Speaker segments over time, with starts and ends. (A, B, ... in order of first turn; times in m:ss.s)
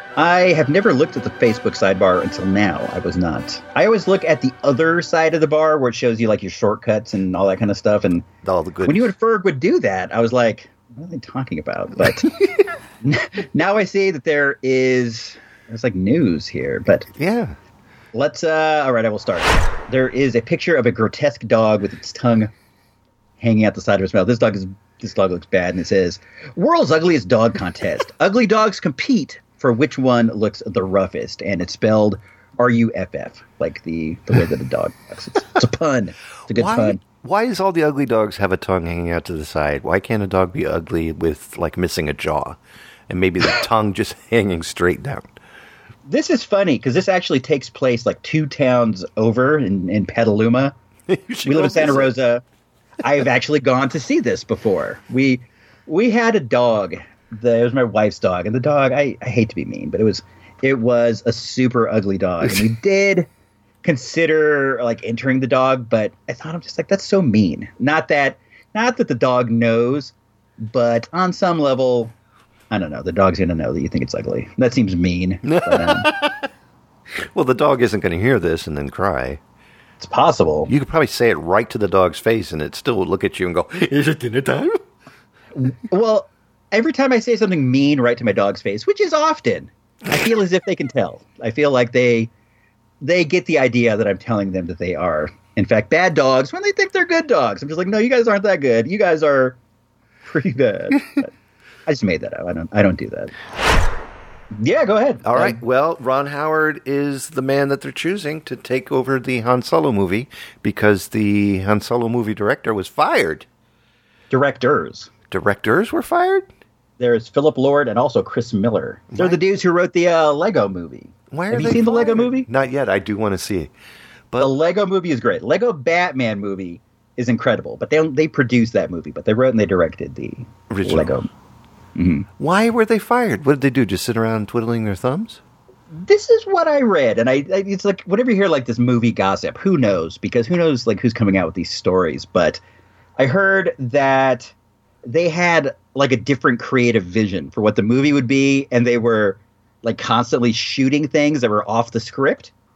0:00.2-0:08.2 A
0:08.4-0:09.1 B
0:08.8-0:12.3 A
0:12.0-0:12.7 B
0:13.0-0:17.1 A
0:17.1-0:17.6 B
0:18.1-0:22.5 A
0:23.4-0:37.0 A
0:36.5-0:42.6 B
0:43.1-0:45.3 B
0:46.1-0:50.7 A
0:51.1-0:52.1 B
0:51.4-0:52.4 A
0:53.0-1:03.3 A
1:03.8-1:12.1 A
1:12.7-1:16.1 A
1:15.4-1:16.5 B
1:17.2-1:19.4 B
1:20.0-1:20.7 A
1:20.7-1:24.8 B
1:25.5-1:32.3 A
1:33.0-1:39.6 A
1:40.2-1:41.3 A
1:41.8-1:43.3 A
1:44.5-1:45.6 A
1:45.2-1:53.4 B
1:54.3-1:55.1 A
1:55.3-1:56.5 B
1:57.0-2:02.5 A
1:59.1-1:59.4 B
2:01.3-2:03.7 B
2:04.4-2:11.3 A
2:10.7-2:11.2 B
2:12.0-2:12.3 A
2:12.4-2:15.4 B
2:15.9-2:22.6 A
2:23.2-2:24.5 A
2:25.0-2:32.5 A